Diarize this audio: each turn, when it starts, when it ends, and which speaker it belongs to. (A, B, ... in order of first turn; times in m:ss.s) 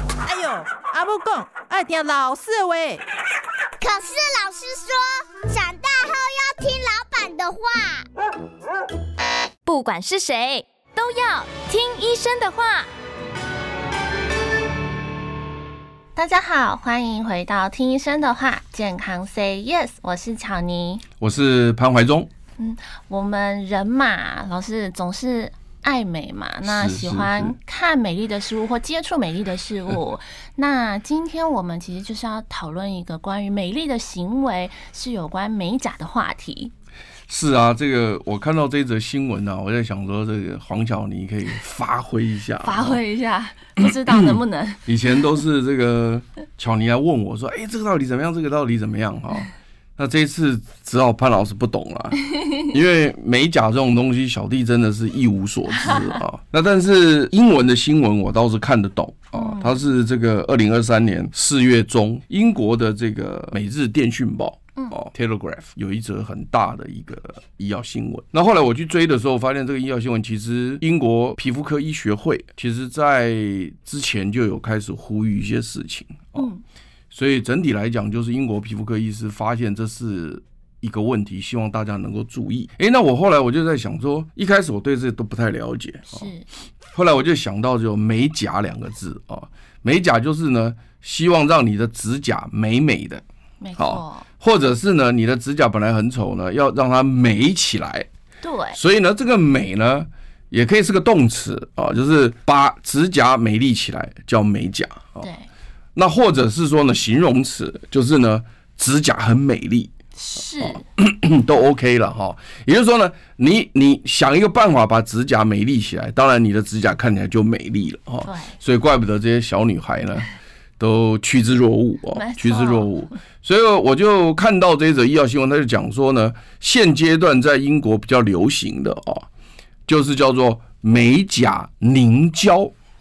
0:00.3-0:03.0 A
0:03.8-0:08.1 B
0:09.7-0:12.9 C
0:16.2-0:21.0 D
0:21.2-0:22.3 E
0:22.6-0:36.7 D
0:26.6-0:27.6 E
0:37.3-0:43.0 E
0:42.6-0:44.9 D
0:43.8-0:52.2 E
0:52.7-1:16.5 E
0:59.4-0:59.8 D
1:16.4-1:16.6 D
1:17.1-1:26.3 E
1:26.1-1:26.5 D
1:26.9-1:33.2 E
1:33.6-1:34.3 D
1:33.8-1:38.1 E
1:38.4-1:38.8 D
1:38.8-1:45.3 E
1:45.2-1:45.5 D
1:46.0-1:49.9 E
1:50.2-1:50.8 D
1:50.6-2:00.3 E
1:58.2-1:58.6 D
2:00.8-2:09.3 E
2:02.1-2:02.9 D
2:09.9-2:12.7 E